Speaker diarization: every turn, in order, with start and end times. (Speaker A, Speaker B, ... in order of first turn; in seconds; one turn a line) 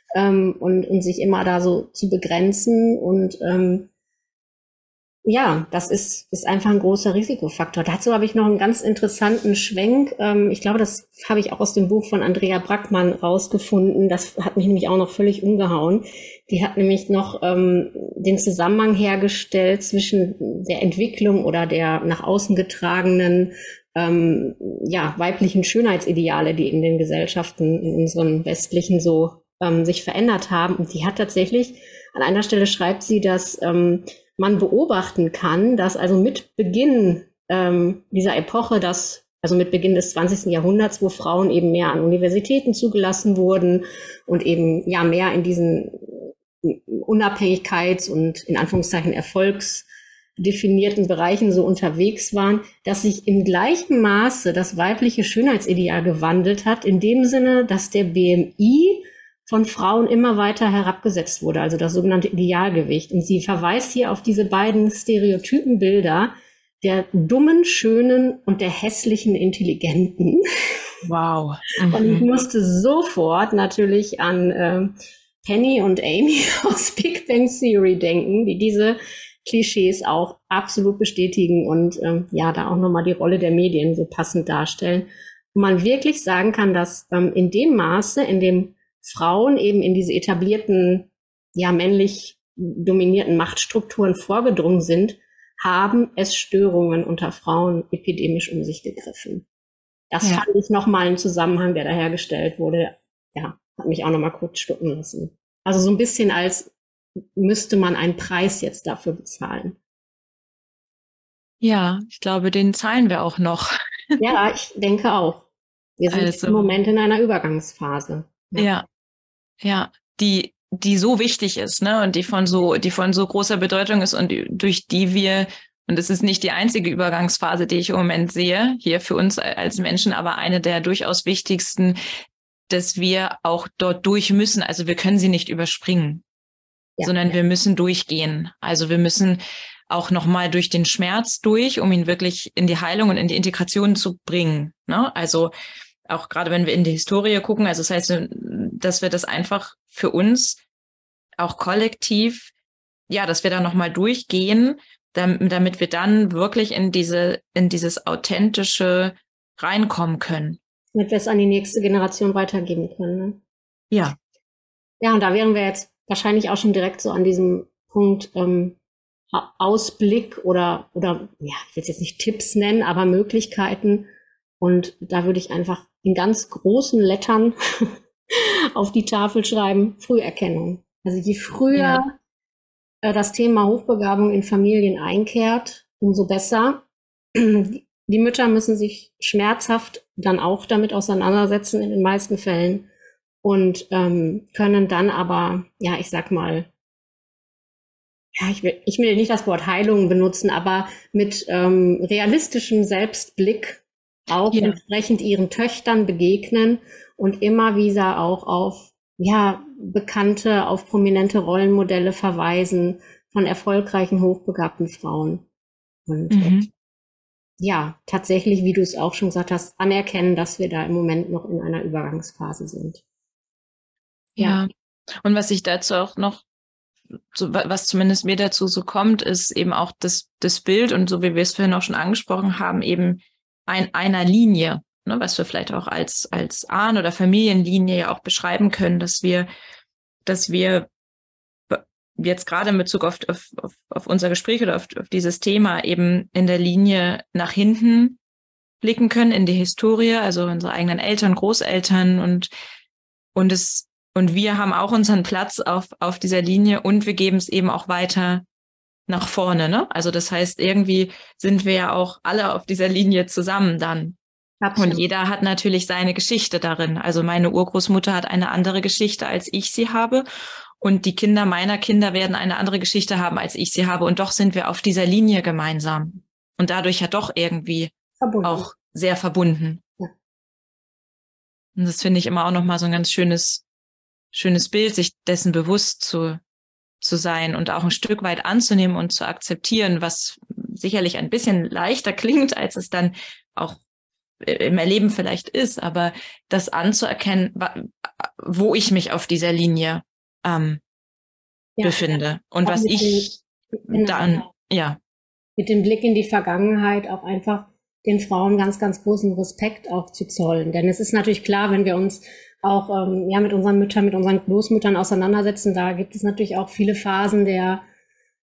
Speaker A: 0.1-3.9
Speaker A: 5.2-49.9
Speaker A: 50.4-70.4
Speaker B: 71.0-72.2
Speaker A: 71.9-99.5
Speaker A: 100.1-106.7
Speaker A: 107.3-109.8
Speaker B: 111.6-114.2
Speaker A: 114.2-115.5
Speaker A: 116.0-118.7
Speaker B: 116.1-116.8
Speaker B: 118.6-118.8
Speaker B: 119.6-132.0
Speaker B: 132.7-136.2
Speaker A: 137.0-137.4
Speaker B: 137.0-145.5
Speaker B: 146.1-150.6
Speaker B: 151.4-152.5
Speaker B: 153.1-160.6
Speaker A: 160.9-163.4
Speaker B: 163.9-164.2
Speaker A: 165.0-168.8
Speaker A: 169.3-174.1
Speaker A: 174.6-182.1
Speaker B: 181.7-182.0
Speaker A: 183.0-192.9
Speaker A: 193.4-196.7
Speaker A: 198.3-215.4
Speaker B: 204.5-204.8
Speaker A: 216.1-216.7
Speaker B: 216.3-216.7
Speaker A: 217.6-223.0
Speaker B: 224.4-224.7
Speaker B: 225.2-226.4
Speaker B: 227.3-239.5
Speaker B: 240.2-240.9
Speaker B: 241.7-248.2
Speaker B: 248.8-252.5
Speaker B: 253.3-258.4
Speaker B: 259.1-264.2
Speaker A: 264.6-265.0
Speaker B: 264.8-270.2
Speaker B: 270.8-279.8
Speaker A: 278.2-278.7
Speaker B: 281.8-283.6
Speaker B: 284.3-286.4
Speaker B: 287.0-293.8
Speaker B: 294.4-300.8
Speaker A: 301.8-302.1
Speaker B: 301.8-305.0
Speaker A: 302.6-303.3
Speaker A: 303.9-304.4
Speaker A: 305.6-317.8